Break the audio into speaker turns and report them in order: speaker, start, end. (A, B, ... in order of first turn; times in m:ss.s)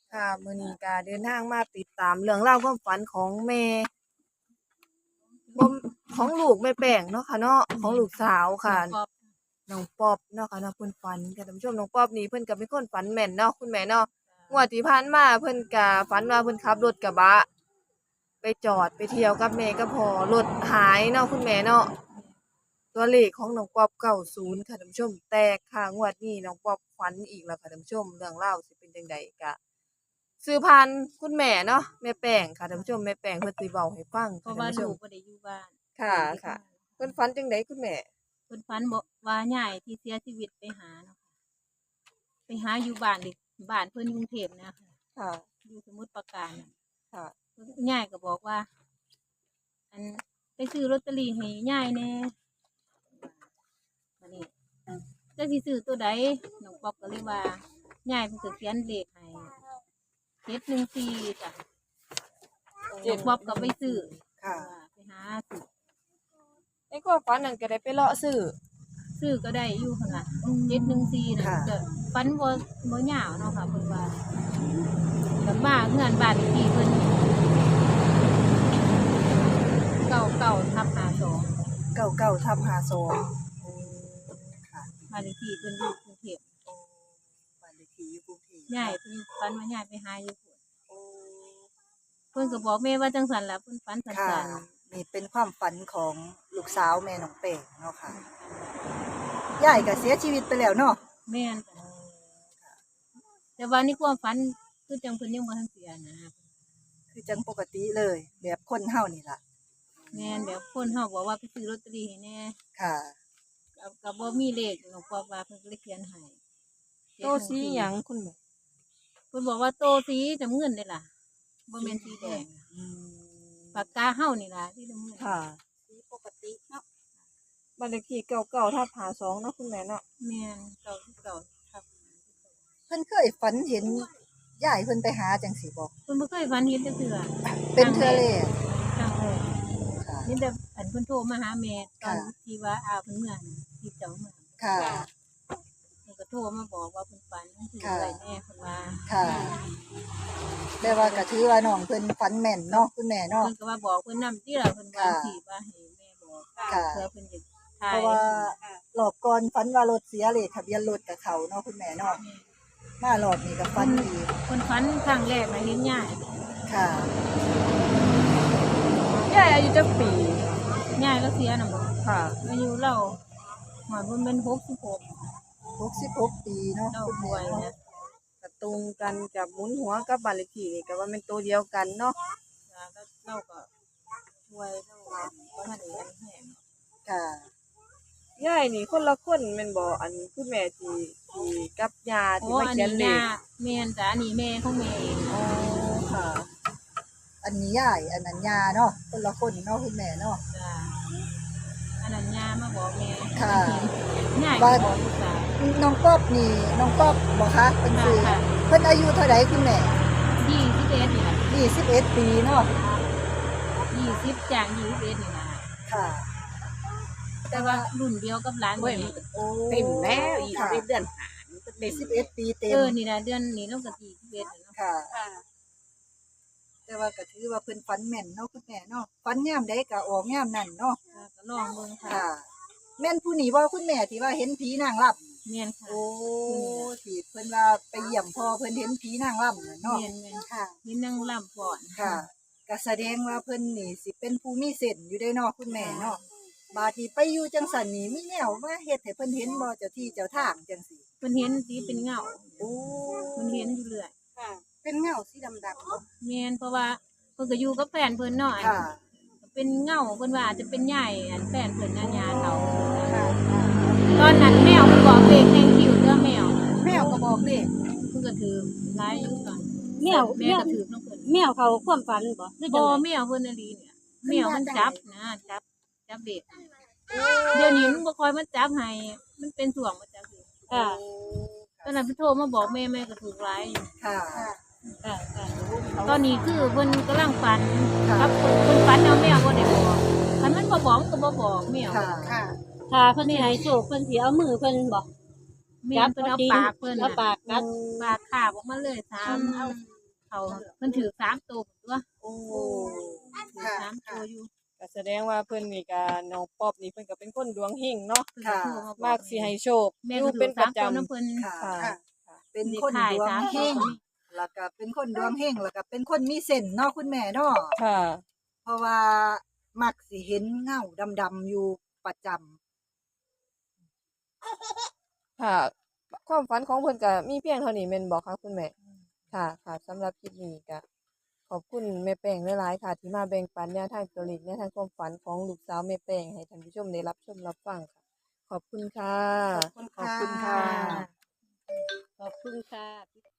0:00.1-0:03.9 A
0:05.4-0:05.7 B
0:05.6-0:09.0 A
0:07.7-0:09.3 B
0:09.7-0:17.5 A
0:14.3-0:14.6 B
0:18.4-0:21.9 A
0:22.1-0:22.4 B
0:22.9-0:29.6 A
0:30.4-0:35.0 A
0:34.4-0:37.1 B
0:36.0-0:38.0 A
0:38.5-0:41.2 B
0:42.5-0:44.9 B
0:45.2-0:45.4 A
0:45.6-0:46.7 B
0:47.6-0:48.7 B
0:49.9-0:52.3 B
0:54.2-0:54.5 B
0:55.4-0:59.6 B
1:00.4-1:01.6 B
1:03.0-1:04.0 A
1:03.0-1:05.7 B
1:04.4-1:04.7 C
1:06.9-1:08.6 A
1:09.1-1:14.2 B
1:11.4-1:11.7 C
1:15.4-1:17.2 B
1:20.0-1:21.5 B
1:21.9-1:25.1 C
1:25.1-1:26.4 B
1:26.6-1:29.0 C
1:28.7-1:30.6 B
1:30.9-1:31.6 A
1:32.3-1:34.7 B
1:34.1-1:38.2 C
1:38.1-1:39.1 B
1:39.6-1:41.0 C
1:39.7-1:40.1 B
1:41.3-1:41.8 B
1:41.8-1:42.8 C
1:43.6-1:46.5 B
1:47.1-1:49.4 C
1:50.0-1:50.4 C
1:50.1-1:52.6 B
1:52.8-1:53.1 C
1:53.8-1:56.4 B
1:57.2-1:57.9 B
1:57.2-1:58.4 A
1:59.3-2:01.1 B
2:01.7-2:02.5 B
2:01.8-2:03.0 C
2:03.7-2:05.4 B
2:05.2-2:05.6 A
2:05.9-2:06.8 D
2:07.8-2:10.0 A
2:10.2-2:12.6 B
2:12.9-2:15.9 C
2:16.1-2:19.5 B
2:17.4-2:18.5 C
2:20.0-2:20.3 C
2:20.2-2:24.5 B
2:22.0-2:22.3 C
2:24.6-2:25.1 C
2:24.8-2:25.0 D
2:26.0-2:29.6 B
2:27.8-2:28.2 C
2:29.1-2:29.6 C
2:29.2-2:29.6 D
2:30.8-2:31.3 B
2:30.8-2:33.5 C
2:33.4-2:38.6 B
2:34.9-2:35.4 C
2:36.7-2:37.0 C
2:37.9-2:42.2 C
2:42.0-2:42.5 B
2:43.0-2:44.3 C
2:43.7-2:46.3 B
2:46.7-2:47.2 C
2:49.2-2:50.6 A
2:50.9-2:53.2 B
2:52.0-2:52.4 A
2:53.9-2:55.2 B
2:55.8-2:57.7 C
2:56.9-2:57.7 B
2:58.4-3:02.2 A
3:02.7-3:03.7 B
3:04.5-3:06.6 B
3:05.5-3:06.0 C
3:07.0-3:07.5 C
3:08.4-3:13.2 A
3:12.4-3:15.4 B
3:15.3-3:16.5 C
3:17.4-3:20.4 C
3:20.5-3:21.0 B
3:22.0-3:25.6 B
3:23.3-3:23.9 C
3:24.6-3:24.9 C
3:25.6-3:30.0 C
3:27.9-3:28.5 B
3:30.3-3:31.5 B
3:31.5-3:32.7 C
3:33.9-3:35.7 B
3:35.9-3:36.3 C
3:37.5-3:37.9 C
3:37.5-3:39.2 B
3:38.8-3:39.2 E
3:39.3-3:40.9 C
3:39.7-3:42.3 E
3:41.8-3:43.0 C
3:42.7-3:44.8 B
3:44.8-3:45.2 C
3:46.9-3:51.0 C
3:51.1-3:52.2 B
3:52.1-3:52.5 C
3:53.0-3:55.4 C
3:55.4-3:56.9 B
3:55.9-4:00.8 C
3:59.8-4:02.2 B
4:01.9-4:06.2 C
4:05.7-4:06.2 B
4:06.7-4:11.0 C
4:11.2-4:12.8 B
4:13.4-4:14.1 B
4:16.2-4:18.8 B
4:18.6-4:19.0 C
4:19.4-4:23.2 B
4:23.3-4:24.0 C
4:24.1-4:27.2 B
4:28.0-4:31.3 B
4:30.0-4:33.0 D
4:32.7-4:36.8 B
4:34.4-4:34.9 D
4:37.5-4:40.5 B
4:40.7-4:41.0 D
4:40.8-4:41.6 A
4:41.8-4:43.9 B
4:44.0-4:44.5 C
4:45.0-4:45.6 D
4:46.0-4:52.1 B
4:48.0-4:48.4 C
4:51.9-4:52.4 C
4:52.9-4:55.1 D
4:53.2-4:53.7 B
4:55.8-4:57.2 B
4:55.9-4:57.9 D
4:58.0-4:59.8 B
4:59.3-4:59.8 D
5:00.3-5:02.0 B
5:02.2-5:03.5 A
5:03.4-5:04.5 B
5:03.6-5:03.8 C
5:04.8-5:08.3 A
5:08.4-5:11.5 B
5:08.4-5:08.9 C
5:09.0-5:12.4 A
5:11.4-5:11.9 C
5:12.5-5:17.8 C
5:12.6-5:14.0 B
5:17.8-5:18.2 A
5:18.6-5:22.6 C
5:25.4-5:28.8 A
5:29.3-5:30.8 A
5:31.5-5:37.9 A
5:38.5-5:41.0 A
5:39.8-5:41.1 C
5:40.4-5:41.1 B
5:42.2-5:43.1 D